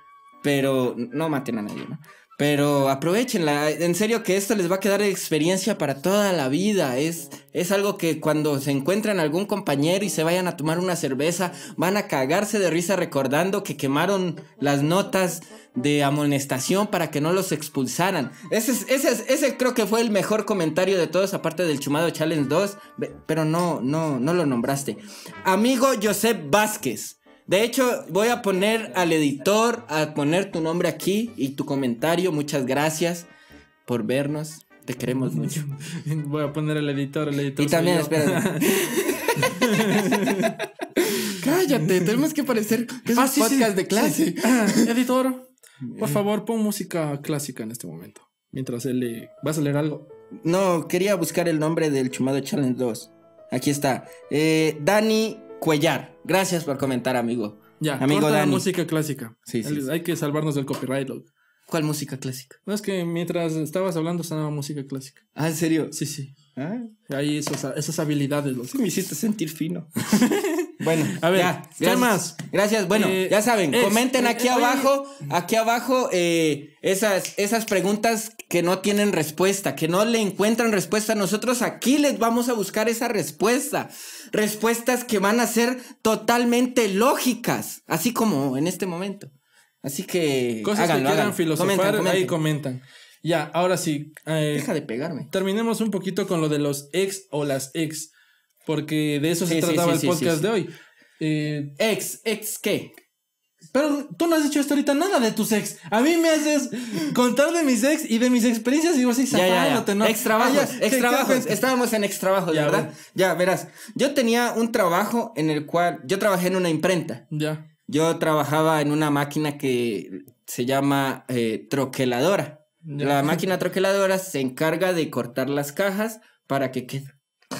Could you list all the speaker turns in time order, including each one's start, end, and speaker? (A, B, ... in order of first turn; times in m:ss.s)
0:00.4-0:33.3 A
0:33.9-0:35.7 A
0:35.3-0:38.8 B
0:37.6-0:40.5 A
0:39.4-0:40.6 B
0:41.0-0:44.9 A
0:43.1-0:50.1 B
0:45.9-0:46.1 A
0:50.4-0:58.7 A
0:57.8-1:01.3 B
0:59.4-0:59.8 A
1:01.7-1:02.6 A
1:02.6-1:05.2 B
1:05.3-1:06.0 A
1:05.9-1:06.4 B
1:06.5-1:06.9 A
1:07.1-1:08.8 B
1:08.7-1:09.9 A
1:10.1-1:12.4 B
1:10.8-1:29.3 A
1:12.9-1:14.9 B
1:29.8-1:32.4 A
1:30.6-1:34.7 B
1:34.5-1:35.3 A
1:35.3-1:38.1 B
1:38.6-1:41.7 B
1:39.4-1:40.4 A
1:41.8-1:43.0 A
1:43.7-1:51.6 B
1:49.3-1:57.2 A
1:52.5-1:52.9 B
1:57.3-1:57.6 B
1:57.9-2:07.1 A
2:02.8-2:03.4 B